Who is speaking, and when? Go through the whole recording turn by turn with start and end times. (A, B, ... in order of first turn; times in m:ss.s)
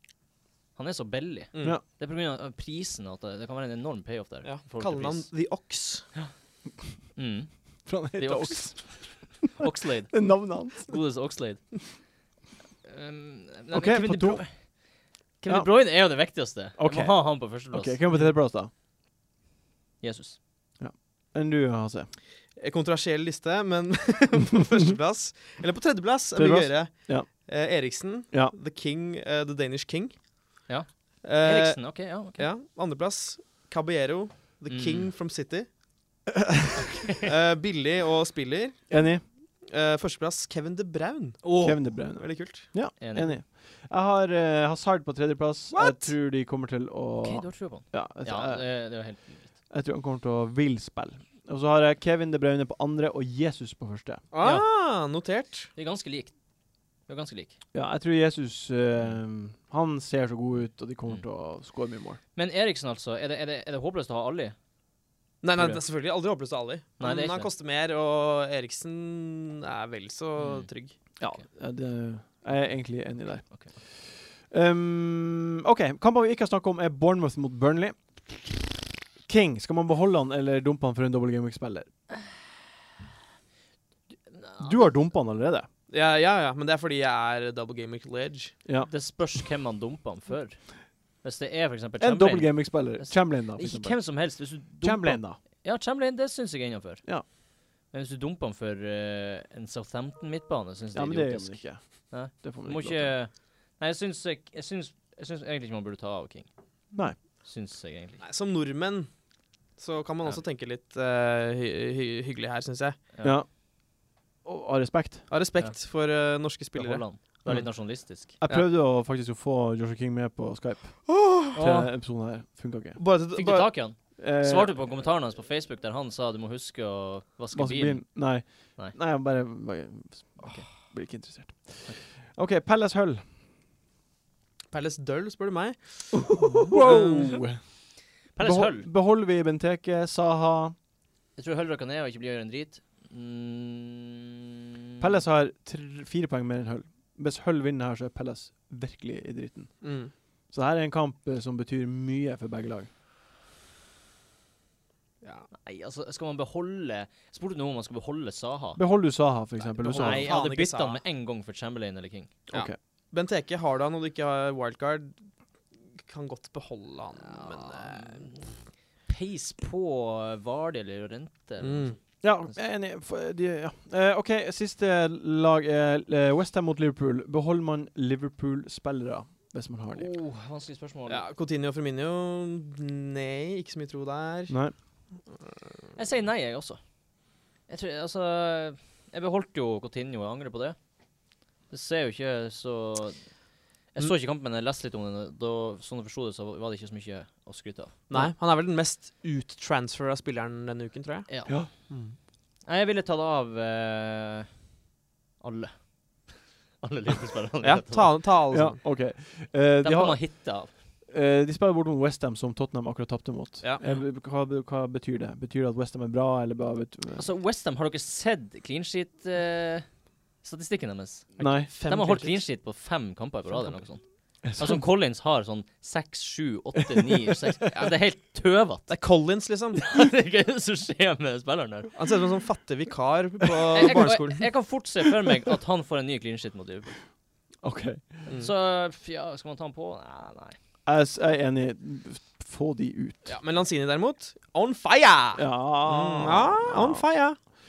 0:00.8-0:05.3 A
0:01.5-0:01.8 B
0:04.4-0:06.1 B
0:07.2-0:11.8 A
0:07.8-0:09.6 C
0:10.1-0:11.0 C
0:12.8-0:14.6 A
0:13.7-0:14.4 C
0:15.4-0:18.3 A
0:15.5-0:15.7 C
0:16.8-0:18.7 C
0:20.0-0:20.4 A
0:20.8-0:22.1 C
0:22.6-0:30.6 B
0:26.3-0:27.3 C
0:30.7-0:32.5 A
0:31.2-0:35.7 B
0:34.7-0:35.1 A
0:37.2-0:39.0 B
0:38.9-0:39.2 C
0:39.6-0:42.7 B
0:41.4-0:41.8 A
0:41.6-0:48.7 C
0:43.0-0:43.3 A
0:45.7-0:46.1 B
0:47.2-0:49.5 A
0:49.7-0:54.2 C
0:54.3-0:55.7 B
0:54.4-0:54.6 A
0:55.7-0:56.3 A
0:57.1-0:57.6 A
0:57.7-1:02.2 C
1:02.3-1:04.6 A
1:05.4-1:10.9 B
1:07.0-1:07.5 A
1:10.4-1:10.7 A
1:11.2-1:18.7 C
1:19.2-1:21.9 C
1:24.3-1:24.8 A
1:24.6-1:25.7 C
1:25.9-1:28.5 B
1:28.6-1:28.9 C
1:28.9-1:30.7 A
1:31.2-1:37.0 A
1:32.0-1:34.2 C
1:34.8-1:35.4 C
1:37.9-1:46.5 A
1:40.9-1:43.1 C
1:47.4-1:48.2 A
1:48.2-1:53.0 B
1:53.1-1:53.4 A
1:53.2-1:55.3 C
1:55.3-1:57.1 B
1:56.7-1:58.6 A
1:57.4-2:03.0 C
2:01.1-2:01.6 B
2:01.5-2:01.9 A
2:03.0-2:03.8 B
2:03.3-2:08.1 A
2:04.2-2:05.0 C
2:07.5-2:13.2 C
2:10.4-2:10.7 A
2:14.7-2:17.3 B
2:16.5-2:17.6 C
2:16.6-2:17.4 A
2:18.3-2:18.9 A
2:18.4-2:20.7 C
2:21.4-2:25.0 A
2:25.0-2:29.8 C
2:29.8-2:30.1 B
2:30.5-2:32.9 C
2:35.2-2:35.5 B
2:35.6-2:38.8 A
2:38.8-2:40.3 C
2:39.8-2:41.0 B
2:39.9-2:42.3 A
2:42.5-2:45.2 B
2:45.9-2:48.2 B
2:47.3-2:48.5 A
2:49.0-2:52.0 A
2:51.6-2:52.0 B
2:52.2-3:00.1 C
2:59.9-3:01.2 A
3:01.1-3:04.5 B
3:06.0-3:06.8 A
3:07.7-3:10.8 A
3:11.7-3:13.2 A
3:13.9-3:18.0 A
3:18.1-3:22.2 B
3:21.3-3:21.6 A
3:22.6-3:24.5 A
3:25.4-3:28.2 A
3:27.6-3:28.8 B
3:28.5-3:37.2 C
3:29.8-3:30.7 A
3:33.8-3:34.0 A
3:37.2-3:49.0 A
3:41.4-3:42.4 B
3:41.4-3:41.7 C
3:44.4-3:44.8 C
3:48.9-3:49.8 B
3:49.7-3:52.0 A
3:51.9-3:54.5 B
3:53.7-3:56.9 A
3:57.6-3:58.2 C
3:58.3-4:00.6 A
4:00.8-4:03.3 C
4:03.2-4:07.4 B
4:05.4-4:07.0 C